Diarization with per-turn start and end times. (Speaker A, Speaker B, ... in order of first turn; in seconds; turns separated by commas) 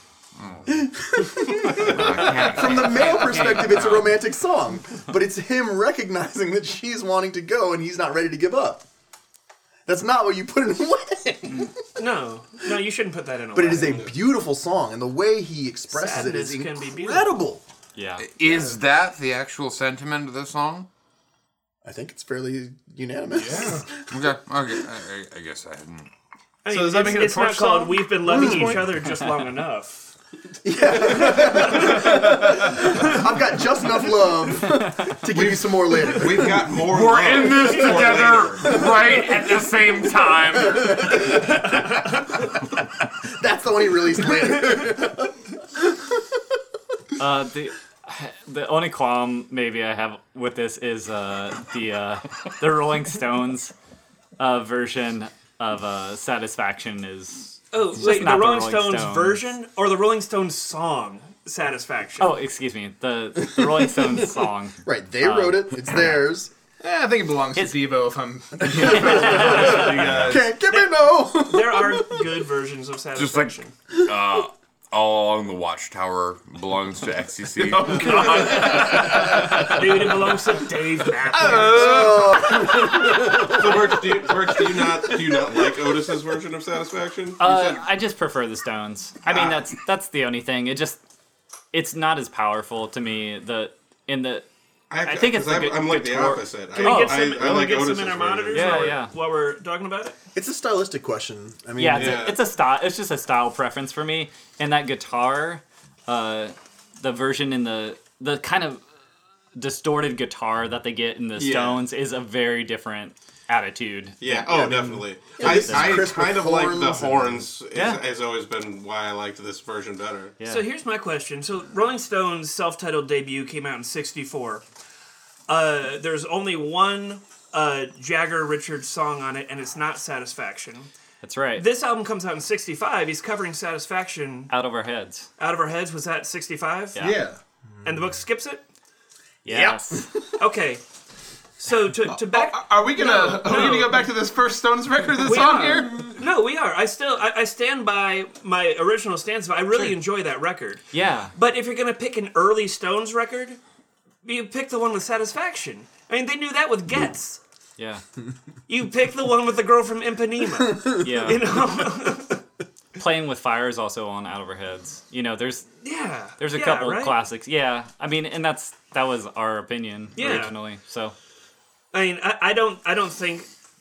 Speaker A: 0.4-0.9, Speaker B: 0.8-8.8, Speaker A: 1.7-4.0, Speaker C: 3.0-3.7, Speaker B: 9.9-12.0, Speaker D: 12.0-14.0, Speaker B: 13.5-17.6, Speaker E: 13.8-14.1, Speaker D: 15.9-17.4, Speaker C: 18.0-18.2, Speaker A: 18.2-20.9, Speaker D: 18.5-18.8, Speaker B: 21.8-24.2, Speaker F: 23.3-23.8, Speaker A: 24.1-26.1, Speaker D: 26.6-30.1, Speaker F: 26.7-28.9, Speaker B: 28.2-29.0, Speaker B: 30.6-36.8, Speaker D: 30.9-32.2, Speaker E: 35.3-38.7, Speaker A: 36.9-41.3, Speaker B: 40.7-41.7, Speaker B: 43.2-46.4, Speaker C: 47.2-53.7, Speaker C: 54.4-59.5, Speaker D: 57.7-62.4, Speaker C: 62.2-66.2, Speaker B: 63.6-64.2, Speaker B: 64.8-66.5, Speaker F: 66.8-70.3, Speaker B: 68.5-72.4, Speaker C: 68.7-70.1, Speaker A: 69.7-70.4, Speaker D: 70.6-73.7, Speaker A: 73.2-79.2, Speaker B: 73.9-74.2, Speaker F: 77.6-83.5, Speaker D: 79.7-82.7, Speaker B: 81.7-83.8, Speaker E: 83.5-87.8, Speaker C: 87.4-91.0, Speaker E: 89.3-89.6, Speaker C: 91.7-94.5, Speaker E: 94.9-99.0, Speaker C: 95.0-97.2, Speaker D: 96.7-100.2, Speaker C: 98.5-99.1, Speaker B: 100.3-102.3, Speaker C: 101.8-108.8, Speaker E: 102.0-102.4, Speaker C: 109.6-114.2, Speaker E: 111.4-111.8, Speaker E: 114.2-120.4, Speaker B: 114.3-117.5, Speaker C: 115.4-116.0, Speaker C: 117.7-118.0, Speaker C: 120.4-120.7, Speaker D: 120.4-124.6, Speaker D: 125.5-130.9, Speaker C: 131.2-131.6, Speaker D: 131.6-134.5, Speaker C: 134.5-135.3, Speaker D: 135.4-137.0, Speaker C: 136.9-137.2, Speaker F: 137.0-137.4, Speaker D: 137.8-138.6, Speaker C: 139.4-140.2, Speaker D: 140.4-140.8, Speaker D: 141.6-144.1, Speaker F: 142.1-146.2, Speaker D: 145.2-153.6, Speaker C: 150.9-151.3, Speaker D: 154.2-157.4, Speaker C: 157.8-158.0, Speaker D: 158.7-162.4, Speaker C: 160.9-161.6, Speaker C: 163.0-165.7, Speaker D: 165.8-167.2, Speaker C: 166.4-171.1, Speaker D: 170.2-170.6, Speaker D: 171.9-173.5